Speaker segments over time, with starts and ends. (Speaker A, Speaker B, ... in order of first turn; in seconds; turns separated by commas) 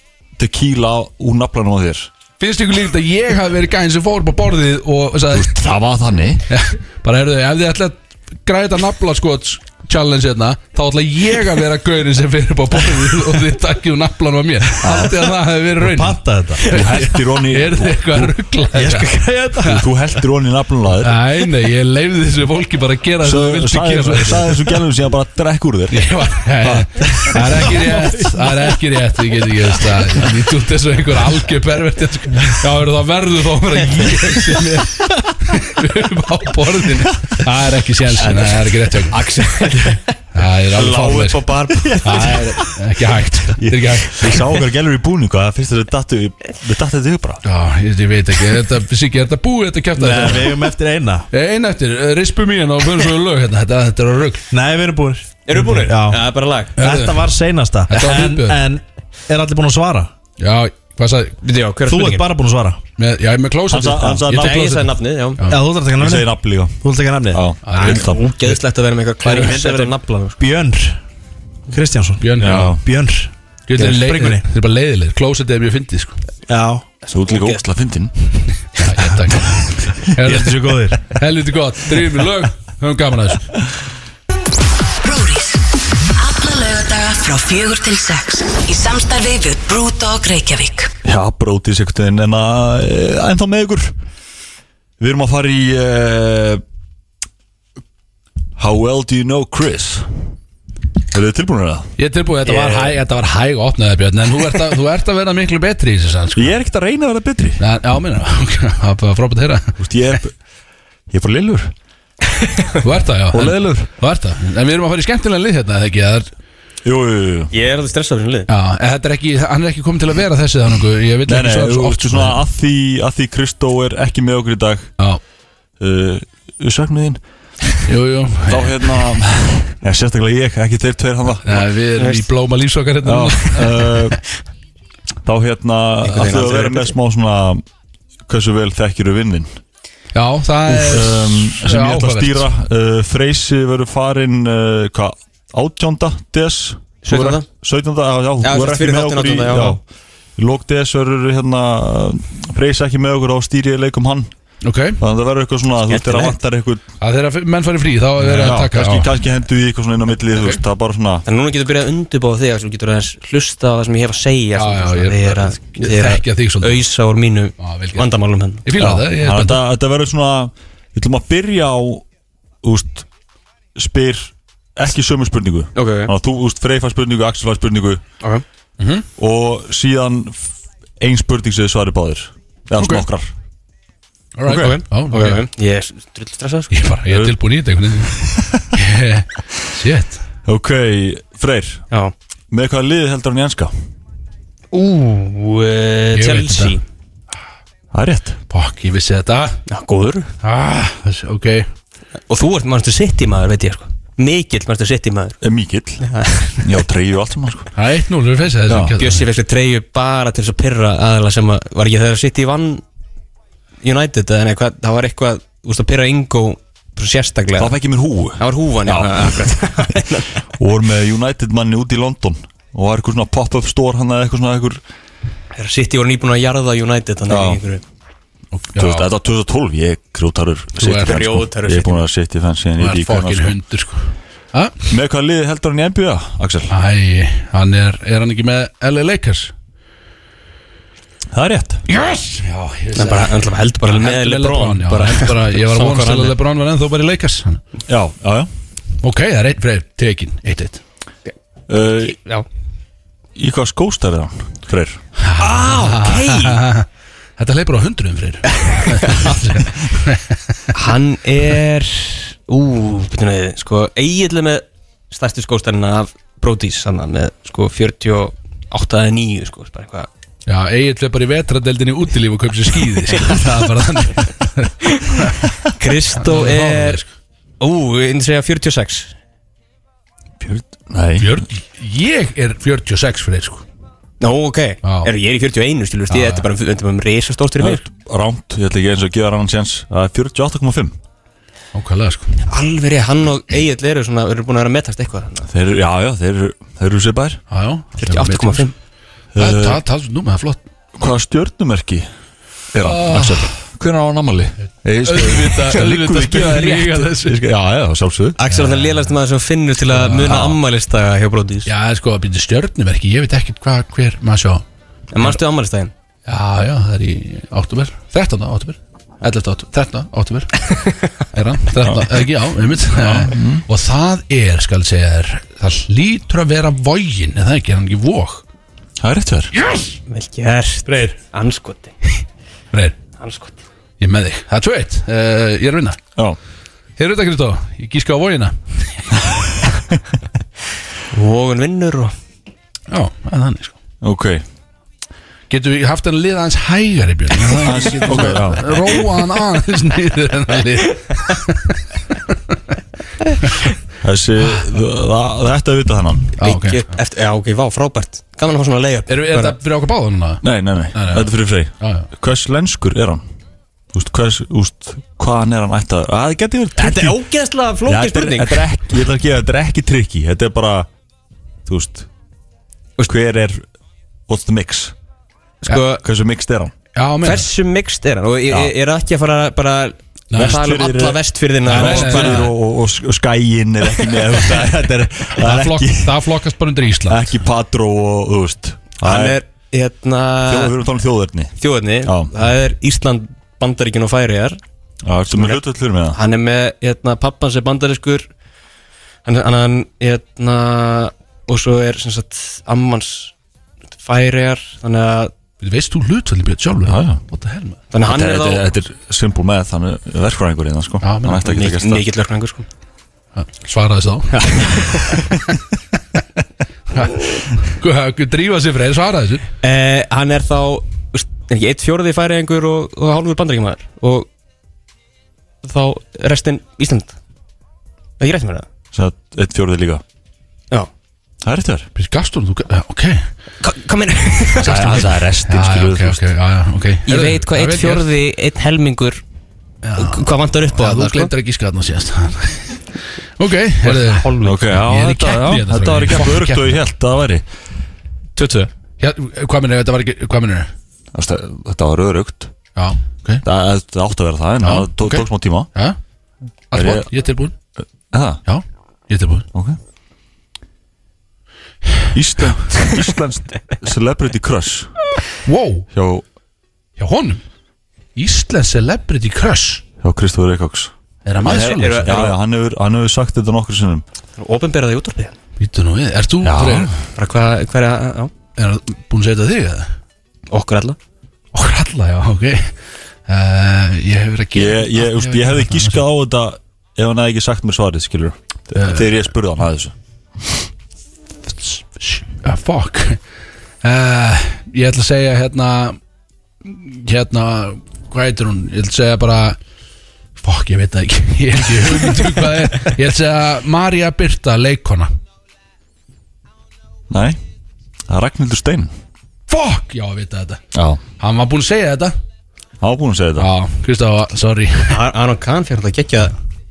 Speaker A: 0.4-2.1, Speaker B: 2.4-5.5, Speaker A: 5.3-6.5, Speaker B: 6.5-19.8, Speaker A: 14.8-15.1, Speaker C: 15.8-16.8, Speaker A: 16.7-18.4, Speaker C: 18.7-19.8, Speaker A: 19.6-21.2, Speaker B: 21.0-24.6, Speaker A: 23.2-27.7, Speaker B: 25.9-39.2, Speaker C: 27.0-28.4, Speaker D: 38.2-40.1, Speaker B: 40.3-41.4, Speaker D: 40.8-42.5, Speaker A: 41.7-42.4, Speaker B: 42.0-44.4, Speaker A: 43.6-47.4, Speaker B: 47.5-50.7, Speaker C: 50.0-51.2, Speaker B: 51.3-54.5, Speaker C: 54.5-56.2, Speaker D: 55.5-56.8, Speaker C: 56.8-60.1, Speaker B: 56.8-57.2, Speaker B: 57.9-58.6, Speaker B: 60.4-61.4, Speaker D: 61.4-62.3, Speaker C: 61.9-62.8, Speaker B: 63.0-65.6, Speaker A: 63.7-64.7, Speaker D: 64.3-65.4, Speaker C: 65.5-67.4, Speaker A: 66.0-68.2, Speaker B: 67.6-68.6, Speaker D: 67.8-70.4, Speaker C: 69.2-71.0, Speaker C: 71.7-74.4, Speaker B: 72.2-72.8, Speaker A: 72.4-72.8, Speaker B: 73.7-76.2, Speaker C: 76.5-76.9, Speaker D: 77.1-77.6, Speaker A: 77.1-78.1, Speaker B: 78.8-83.5, Speaker C: 80.2-81.0, Speaker E: 85.0-85.6, Speaker E: 86.1-90.9, Speaker A: 91.0-94.0, Speaker A: 95.0-96.6, Speaker A: 98.6-100.1, Speaker A: 101.1-101.9, Speaker B: 102.0-106.5, Speaker A: 106.3-107.6, Speaker B: 107.6-109.8, Speaker A: 109.8-110.4, Speaker A: 111.1-111.7, Speaker B: 112.8-116.3, Speaker A: 113.3-113.9, Speaker A: 116.8-117.5, Speaker D: 117.5-118.5, Speaker B: 118.5-122.4, Speaker A: 121.3-124.9, Speaker A: 125.8-127.2, Speaker B: 127.9-128.9, Speaker A: 128.5-131.7, Speaker B: 131.4-133.9, Speaker D: 132.0-132.2, Speaker A: 133.0-134.2, Speaker A: 135.2-137.6, Speaker D: 136.0-136.9, Speaker A: 138.3-139.6, Speaker B: 140.1-142.5, Speaker A: 140.7-149.8, Speaker D: 147.1-147.5, Speaker D: 148.4-149.8, Speaker A: 150.4-154.3, Speaker B: 154.6-155.0, Speaker A: 155.0-156.8, Speaker D: 155.9-156.4, Speaker B: 157.0-159.1, Speaker A: 158.2-161.2, Speaker B: 160.3-160.6, Speaker D: 161.3-168.8, Speaker B: 164.6-166.8, Speaker B: 167.6-168.1, Speaker B: 168.6-169.6, Speaker A: 168.8-172.1, Speaker A: 172.6-173.1, Speaker A: 173.8-178.0, Speaker D: 175.8-176.1, Speaker B: 178.8-179.1, Speaker A: 179.2-183.3, Speaker B: 182.8-183.1, Speaker B: 184.4-185.4, Speaker D: 184.5-186.9, Speaker B: 186.7-188.2, Speaker A: 187.1-187.4, Speaker A: 188.0-188.7, Speaker B: 188.7-190.2, Speaker A: 190.4-191.8, Speaker A: 192.5-193.7, Speaker D: 194.7-196.8, Speaker B: 196.1-196.8, Speaker A: 197.9-198.4, Speaker B: 198.5-199.6, Speaker D: 199.7-200.3, Speaker B: 200.4-201.7, Speaker D: 202.3-205.4, Speaker A: 205.4-206.1, Speaker D: 206.0-206.8, Speaker A: 206.6-207.7, Speaker B: 207.8-209.2, Speaker A: 208.7-209.0, Speaker D: 209.0-212.8, Speaker D: 213.8-217.8, Speaker A: 217.6-219.5, Speaker D: 218.4-220.4, Speaker A: 220.6-224.8, Speaker D: 225.6-227.8, Speaker A: 227.3-227.6, Speaker B: 228.5-229.1, Speaker A: 228.8-233.6, Speaker B: 230.8-231.2, Speaker D: 230.9-232.0, Speaker B: 232.8-234.9, Speaker A: 234.9-236.7, Speaker B: 236.7-239.5, Speaker A: 241.3-241.8, Speaker B: 241.9-247.6, Speaker D: 243.0-246.4, Speaker A: 247.9-248.5, Speaker B: 249.0-250.8, Speaker A: 251.7-252.2, Speaker D: 252.1-252.5, Speaker A: 253.3-255.0, Speaker B: 255.2-256.9, Speaker D: 255.4-256.6, Speaker B: 257.4-260.6, Speaker D: 258.8-259.3, Speaker D: 260.7-270.1, Speaker B: 270.5-275.5, Speaker D: 273.1-273.4, Speaker D: 275.7-277.0, Speaker B: 276.2-277.1, Speaker D: 277.6-279.1, Speaker A: 280.4-281.4, Speaker B: 281.2-283.6, Speaker D: 284.2-287.8, Speaker B: 284.8-285.1, Speaker B: 286.1-286.4, Speaker A: 287.6-290.9, Speaker B: 291.7-292.4, Speaker D: 292.4-295.5, Speaker A: 295.5-297.4, Speaker B: 297.5-298.7, Speaker D: 298.0-298.7, Speaker A: 299.4-299.8, Speaker B: 299.4-300.6, Speaker A: 300.9-302.1, Speaker A: 302.7-308.4, Speaker B: 302.8-303.5, Speaker B: 305.0-307.4, Speaker D: 308.4-311.7, Speaker B: 308.5-309.1, Speaker B: 309.9-310.4, Speaker A: 310.3-310.6, Speaker B: 311.7-314.6, Speaker D: 315.1-315.9, Speaker B: 316.3-320.7, Speaker B: 321.3-328.4, Speaker A: 321.8-322.1, Speaker A: 322.9-323.7, Speaker A: 329.0-329.5, Speaker B: 329.5-330.0, Speaker D: 330.1-331.9, Speaker B: 330.9-331.1, Speaker D: 333.2-333.6, Speaker B: 334.0-336.0, Speaker B: 337.0-339.0, Speaker D: 341.1-342.1, Speaker B: 342.9-343.8, Speaker A: 344.0-344.4, Speaker B: 345.5-352.4, Speaker A: 347.6-348.9, Speaker A: 354.0-356.4, Speaker B: 356.4-356.9, Speaker D: 356.4-359.6, Speaker B: 359.1-362.1, Speaker A: 360.4-363.2, Speaker A: 363.9-367.2, Speaker D: 366.8-368.8, Speaker A: 367.9-370.9, Speaker A: 371.7-372.1, Speaker A: 373.0-373.6, Speaker A: 374.3-374.9, Speaker D: 375.6-376.0, Speaker A: 376.0-376.7, Speaker B: 376.9-377.5, Speaker D: 377.2-382.5, Speaker B: 380.3-380.6, Speaker A: 380.4-386.2, Speaker B: 381.7-382.5, Speaker B: 385.4-387.4, Speaker A: 387.1-389.4, Speaker D: 389.0-390.8, Speaker A: 390.5-392.3, Speaker D: 391.6-394.6, Speaker A: 395.1-396.2, Speaker D: 395.3-395.6, Speaker D: 396.1-398.3, Speaker D: 399.2-403.3, Speaker D: 404.0-405.3, Speaker B: 405.6-407.8, Speaker A: 406.9-407.2, Speaker D: 407.9-408.6, Speaker A: 408.0-412.1, Speaker B: 411.0-411.5, Speaker D: 411.4-412.7, Speaker B: 413.4-414.4, Speaker D: 414.3-415.3, Speaker B: 416.9-419.4, Speaker D: 419.6-424.3, Speaker D: 425.6-427.1, Speaker D: 428.2-428.7, Speaker A: 428.9-430.0, Speaker A: 431.4-431.9, Speaker B: 431.9-433.3, Speaker D: 433.6-435.1, Speaker A: 434.6-436.2, Speaker B: 434.7-438.1, Speaker D: 437.1-439.2, Speaker B: 439.8-442.8, Speaker D: 440.0-441.3, Speaker B: 443.4-446.8, Speaker D: 443.8-444.8, Speaker A: 444.4-447.4, Speaker D: 448.4-448.7, Speaker B: 449.0-450.7, Speaker A: 451.1-452.5, Speaker B: 452.8-453.4, Speaker A: 453.4-455.7, Speaker B: 454.6-456.0, Speaker B: 456.7-457.6, Speaker A: 456.7-457.1, Speaker A: 457.8-458.4, Speaker B: 458.4-459.5, Speaker A: 459.5-459.8, Speaker A: 462.1-464.9, Speaker B: 465.4-465.9, Speaker A: 465.9-466.2, Speaker B: 467.0-467.4, Speaker B: 468.2-469.8, Speaker A: 470.0-470.9, Speaker B: 471.2-472.2, Speaker D: 471.4-472.4, Speaker A: 471.4-474.0, Speaker D: 474.4-475.4, Speaker B: 475.6-476.9, Speaker A: 476.4-476.9, Speaker D: 477.2-478.3, Speaker B: 478.6-479.9, Speaker D: 480.5-481.0, Speaker B: 481.5-482.7, Speaker B: 483.3-486.0, Speaker A: 484.5-489.9, Speaker B: 488.7-489.2, Speaker B: 491.5-493.2, Speaker B: 493.8-496.0, Speaker B: 496.6-499.6, Speaker B: 500.4-505.1, Speaker A: 507.1-507.4, Speaker A: 508.1-508.9, Speaker B: 509.5-510.6, Speaker A: 510.7-511.0, Speaker B: 511.2-512.1, Speaker A: 512.8-513.5, Speaker B: 513.4-515.0, Speaker D: 514.9-516.4